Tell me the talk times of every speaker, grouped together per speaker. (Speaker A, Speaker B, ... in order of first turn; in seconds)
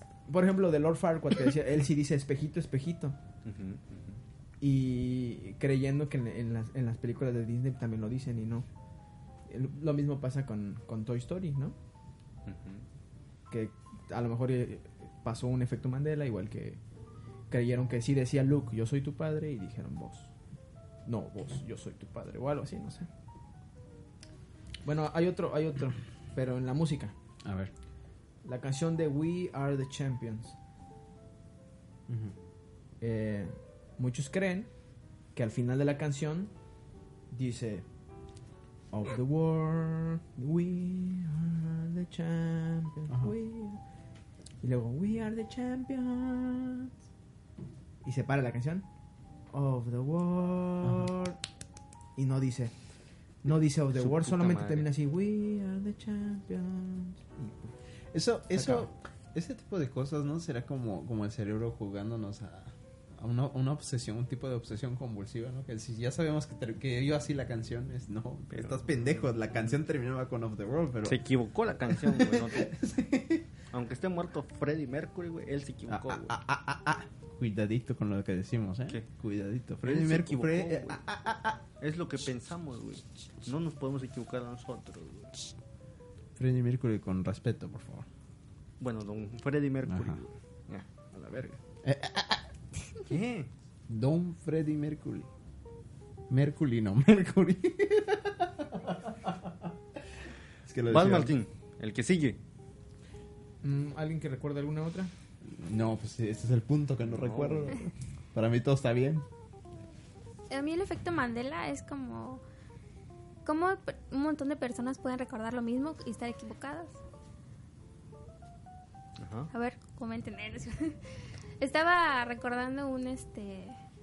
Speaker A: 0.3-3.2, 4.6-8.7, 9.5-11.7, 13.5-16.8, 17.5-20.3, 21.1-23.1, 24.8-27.1, 28.4-30.6, 33.0-34.7, 35.3-36.5, 37.3-37.8, 38.9-43.8, 44.6-46.9, 48.0-48.9, 49.5-51.4, 52.1-52.7, 53.4-57.7, 58.5-58.9, 103.6-105.1
Speaker B: 3.4-4.2, 12.4-12.8, 53.9-54.9, 68.5-69.7, 71.0-72.7, 73.7-76.3, 79.8-81.0, 81.8-85.5, 88.8-91.6, 93.0-93.5, 100.9-102.4, 107.1-107.7, 119.2-119.5
Speaker C: 27.4-27.7, 32.1-32.3, 50.8-51.1, 58.1-71.2, 71.8-73.5, 75.9-81.6, 86.4-88.1, 89.9-90.2, 91.8-92.5, 93.9-95.3, 96.3-99.7, 100.6-101.3, 105.4-109.2
Speaker D: 110.5-112.4, 113.4-117.0, 119.5-121.0, 121.6-123.8